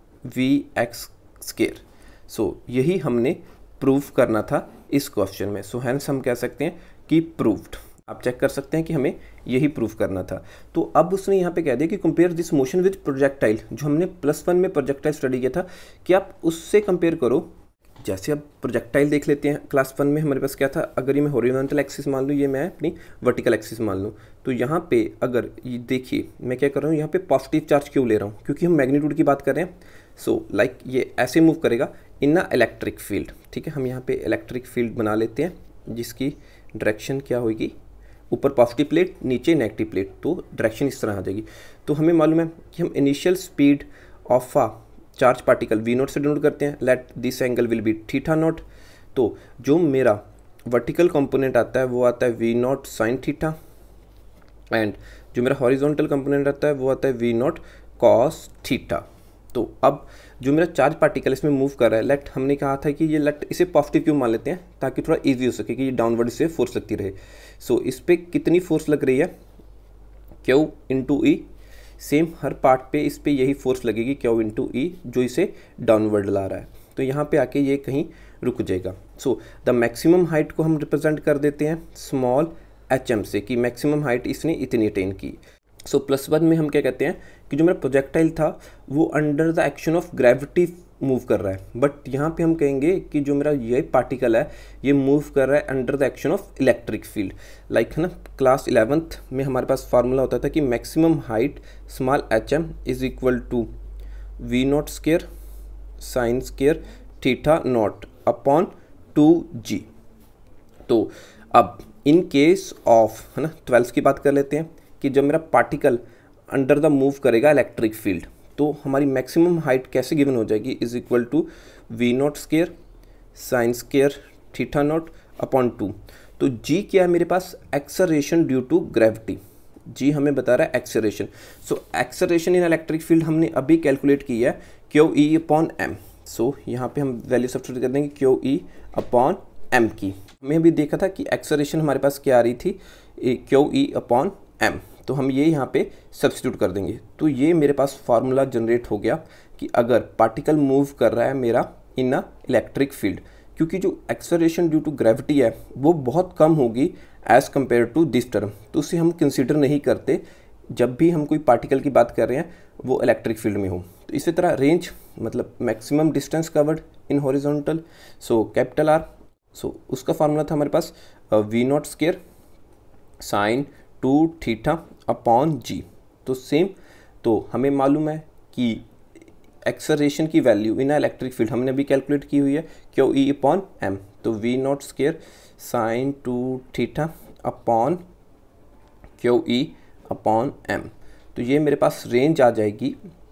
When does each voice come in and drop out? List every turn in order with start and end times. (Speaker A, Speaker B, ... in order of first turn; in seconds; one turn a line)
Speaker A: 0.2-17.5
Speaker A: 18.0-37.8
Speaker A: 38.3-48.6
Speaker A: 49.1-53.5
Speaker A: 54.7-69.3
Speaker A: 70.4-71.5
Speaker A: 72.0-103.7
Speaker A: 104.4-105.2
Speaker A: 106.0-109.9
Speaker A: 110.9-122.7
Speaker A: 123.3-172.2
Speaker A: 173.2-178.8
Speaker A: 179.7-188.0
Speaker A: 189.2-193.0